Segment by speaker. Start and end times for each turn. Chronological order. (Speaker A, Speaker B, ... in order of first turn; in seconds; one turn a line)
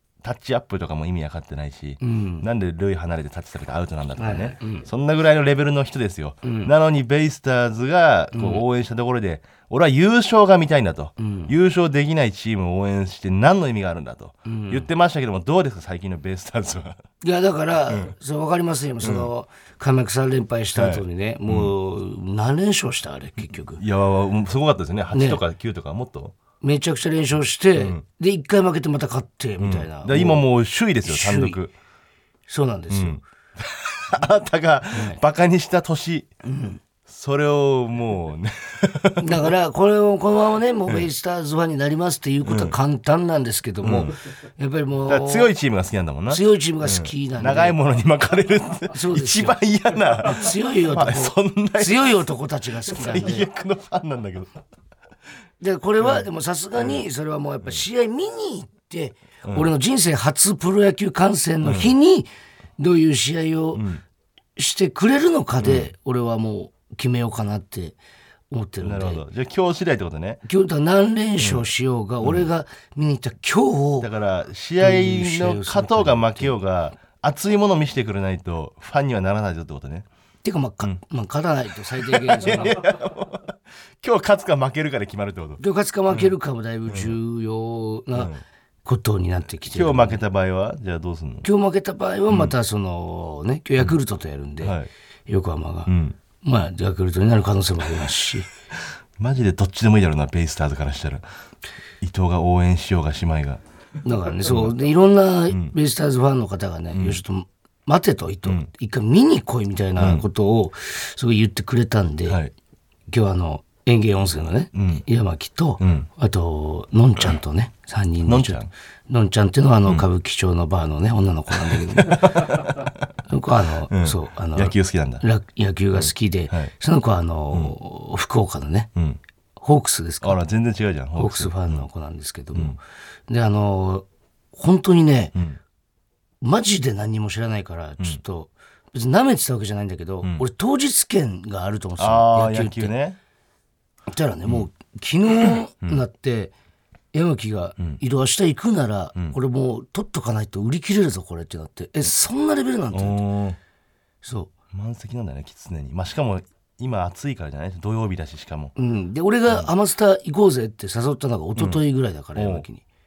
Speaker A: 0.2-17.0
Speaker B: 2.0-2.4
Speaker B: 4.2-4.8
Speaker B: 6.4-6.7
Speaker B: 8.3-8.6
Speaker B: 11.2-11.5
Speaker B: 14.4-14.9
Speaker B: 17.2-23.8
Speaker A: 19.0-19.3
Speaker A: 20.7-21.7
Speaker A: 23.8-26.4
Speaker B: 25.1-25.4
Speaker B: 26.6-30.4
Speaker A: 27.8-28.0
Speaker A: 29.6-31.7
Speaker B: 31.0-31.6
Speaker B: 32.5-33.2
Speaker A: 32.9-36.3
Speaker B: 34.9-35.2
Speaker B: 36.4-36.8
Speaker A: 37.1-39.5
Speaker B: 39.2-45.5
Speaker A: 42.4-42.8
Speaker A: 43.8-44.1
Speaker A: 45.0-52.2
Speaker B: 46.3-47.8
Speaker B: 48.9-49.6
Speaker B: 50.2-53.5
Speaker A: 52.8-54.5
Speaker B: 55.6-63.8
Speaker A: 59.4-59.7
Speaker A: 61.6-61.9
Speaker A: 63.7-64.0
Speaker B: 64.6-68.0
Speaker A: 65.6-65.9
Speaker B: 68.5-69.2
Speaker A: 68.8-70.4
Speaker B: 70.4-74.1
Speaker A: 71.4-71.7
Speaker A: 72.2-72.5
Speaker A: 74.0-80.1
Speaker B: 74.8-76.5
Speaker B: 80.4-82.8
Speaker A: 82.0-86.3
Speaker B: 85.6-88.3
Speaker A: 86.9-87.2
Speaker A: 88.1-88.4
Speaker B: 88.8-90.2
Speaker A: 89.7-91.5
Speaker B: 91.4-94.8
Speaker A: 94.6-94.9
Speaker B: 95.3-98.5
Speaker A: 95.9-96.2
Speaker A: 99.2-101.2
Speaker A: 102.0-103.6
Speaker B: 104.0-112.4
Speaker A: 104.5-104.7
Speaker A: 106.9-107.2
Speaker A: 110.0-110.2
Speaker B: 113.1-122.6
Speaker A: 114.7-115.0
Speaker A: 115.8-116.1
Speaker A: 118.2-118.7
Speaker A: 121.6-122.9
Speaker B: 123.3-128.9
Speaker A: 123.9-125.2
Speaker A: 125.9-126.7
Speaker B: 129.6-130.4
Speaker A: 130.2-131.8
Speaker B: 131.2-135.3
Speaker B: 136.4-142.9
Speaker A: 142.0-143.2
Speaker B: 144.1-146.5
Speaker B: 147.1-153.2
Speaker A: 152.9-153.6
Speaker B: 154.2-154.5
Speaker A: 154.7-158.7
Speaker B: 158.8-162.8
Speaker A: 161.6-161.8
Speaker A: 162.3-162.7